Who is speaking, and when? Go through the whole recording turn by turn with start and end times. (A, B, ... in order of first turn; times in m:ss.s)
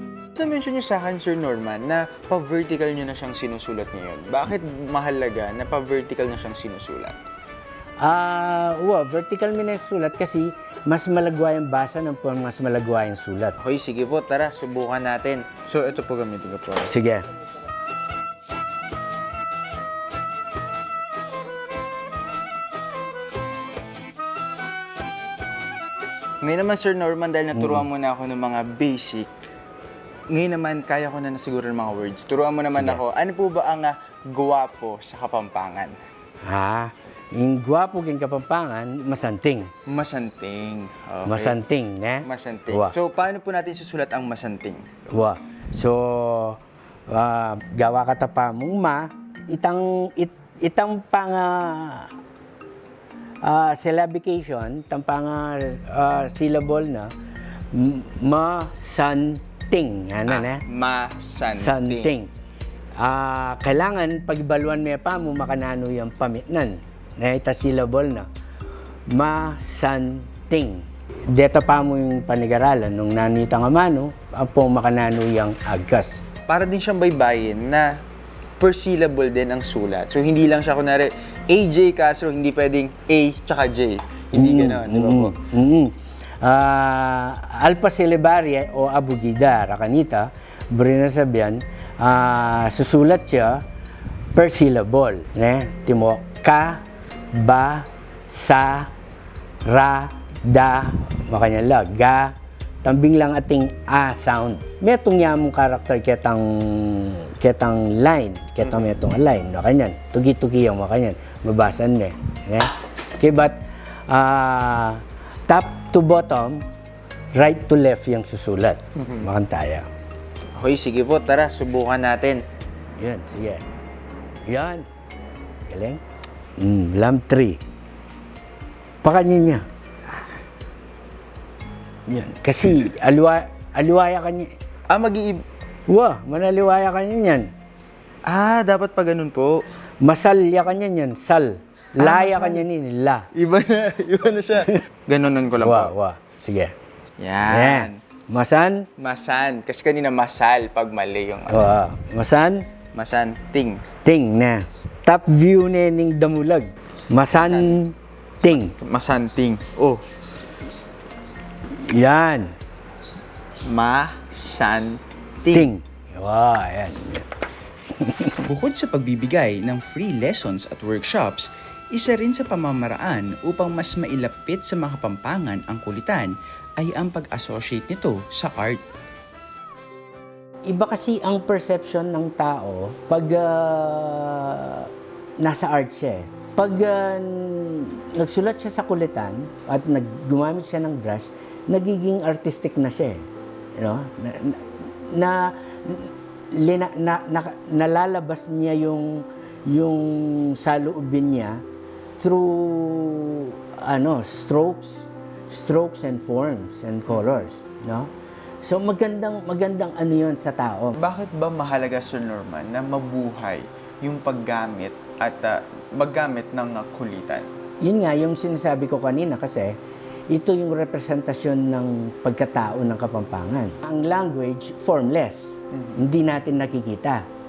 0:00.3-0:07.2 A
0:08.0-0:13.6 B
0:13.6-0:16.9 A
0:16.8-0:17.2 B
0:26.4-0:29.3 A
0:27.5-0:27.8 B
0:30.3-0:35.9 A
0:32.7-0:33.0 B
0:36.4-0:39.7 B
0:39.9-0:41.6 A
0:41.2-0:42.9 B
0:42.2-0:44.8 A
0:45.1-0:52.1 B
0:53.4-0:57.1 B
0:57.7-1:00.6 B
1:00.3-1:02.1 A
1:01.5-1:02.3 B
1:03.0-1:08.3 B
1:09.1-1:16.2 B
1:16.5-1:17.9 A
1:18.6-1:25.4 A
1:24.3-1:33.6 B
1:34.3-1:38.9 B
1:39.6-1:56.6 B
1:57.3-1:59.9 B
2:00.5-2:02.4 A
2:03.0-2:03.6 B
2:04.5-2:04.8 B
2:05.7-2:06.0 B
2:06.6-2:07.6 B
2:09.0-2:09.6 B
2:12.1-2:14.5 B
2:14.9-2:15.4 A
2:15.9-2:17.5 B
2:18.2-2:19.6 A
2:20.0-2:23.3 B
2:22.0-2:22.6 A
2:23.3-2:25.9 A
2:25.6-2:26.7 B
2:27.2-2:28.0 A
2:27.4-2:28.8 B
2:29.0-2:31.7 A
2:31.5-2:32.6 B
2:32.9-2:33.8 A
2:34.0-2:38.7 B
2:37.4-2:37.8 A
2:38.5-2:40.0 A
2:41.9-2:42.5 B
2:43.6-2:45.7 A
2:45.5-2:47.2 B
2:48.0-2:48.4 B
2:48.4-2:58.8 C
3:00.7-3:04.9 B
3:05.4-3:13.2 B
3:13.8-3:21.6 B
3:22.2-3:28.1 B
3:28.6-3:31.0 B
3:31.0-3:37.5 A
3:37.8-3:39.8 B
3:40.3-3:47.2 B